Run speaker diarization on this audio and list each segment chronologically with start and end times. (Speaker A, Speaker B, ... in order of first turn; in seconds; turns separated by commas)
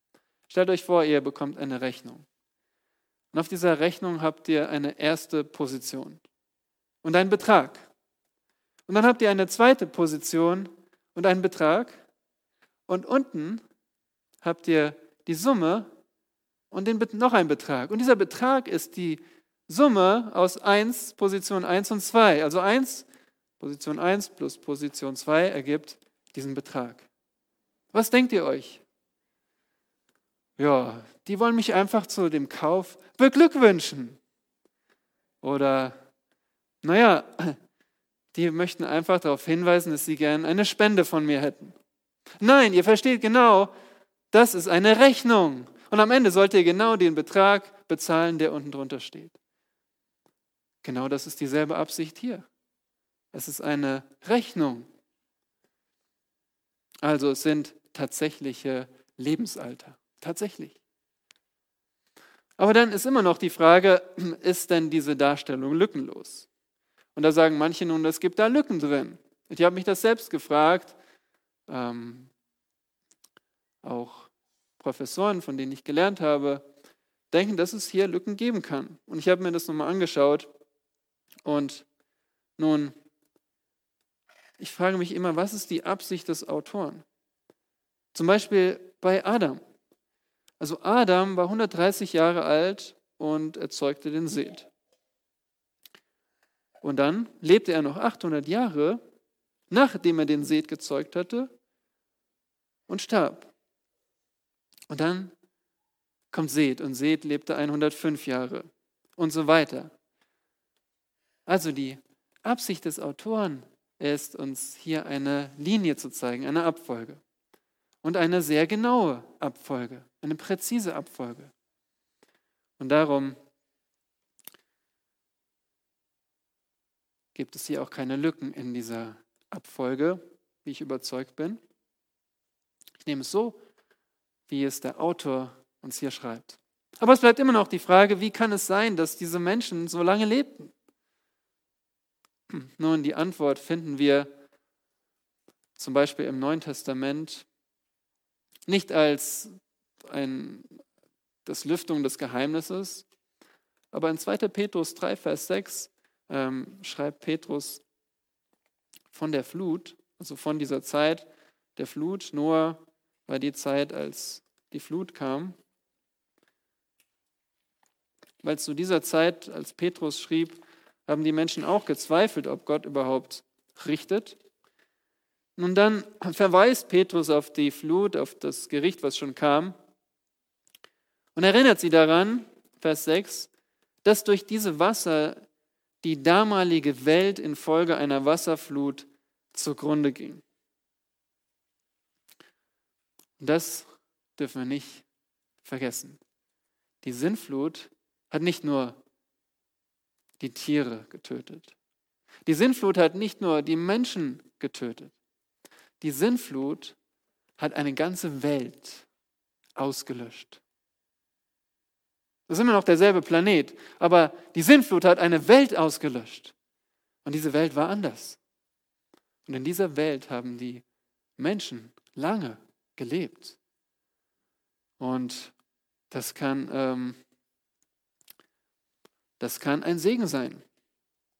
Speaker A: 0.5-2.2, Speaker A: 3.3-6.2, Speaker A: 7.0-7.9, Speaker A: 8.9-12.0, Speaker A: 12.9-13.6, Speaker A: 14.4-15.9, Speaker A: 16.7-23.1, Speaker A: 23.6-27.1, Speaker A: 27.9-28.8, Speaker A: 30.6-34.2, Speaker A: 35.4-36.0, Speaker A: 36.8-37.6, Speaker A: 38.3-41.8, Speaker A: 42.4-43.7, Speaker A: 44.3-49.4, Speaker A: 50.8-52.5, Speaker A: 53.3-54.9, Speaker A: 57.0-60.8, Speaker A: 62.6-66.5, Speaker A: 67.1-70.9, Speaker A: 71.7-72.3, Speaker A: 73.8-76.6, Speaker A: 77.3-80.5, Speaker A: 81.4-81.8, Speaker A: 82.6-82.9, Speaker A: 84.6-87.0, Speaker A: 88.1-89.6, Speaker A: 90.6-94.7, Speaker A: 96.8-99.0, Speaker A: 99.7-101.5, Speaker A: 102.9-103.5, Speaker A: 104.9-105.3, Speaker A: 106.3-109.9, Speaker A: 111.5-117.2, Speaker A: 118.0-121.5, Speaker A: 122.8-123.4, Speaker A: 127.3-131.6, Speaker A: 133.0-133.6, Speaker A: 134.5-140.7, Speaker A: 142.5-144.3, Speaker A: 145.8-147.4, Speaker A: 148.7-149.5, Speaker A: 150.1-150.8, Speaker A: 151.4-153.0, Speaker A: 153.9-157.8, Speaker A: 159.1-165.6, Speaker A: 168.4-174.4, Speaker A: 175.6-179.8, Speaker A: 181.3-183.5, Speaker A: 184.0-185.4, Speaker A: 186.0-190.4, Speaker A: 193.4-195.0, Speaker A: 195.6-196.2, Speaker A: 197.0-199.0, Speaker A: 200.4-201.7, Speaker A: 202.4-205.1, Speaker A: 206.0-206.9, Speaker A: 207.6-209.1, Speaker A: 209.8-210.6, Speaker A: 212.5-216.5, Speaker A: 217.2-218.4, Speaker A: 219.4-220.8, Speaker A: 221.4-223.6, Speaker A: 225.0-225.5, Speaker A: 226.1-227.2, Speaker A: 229.4-230.6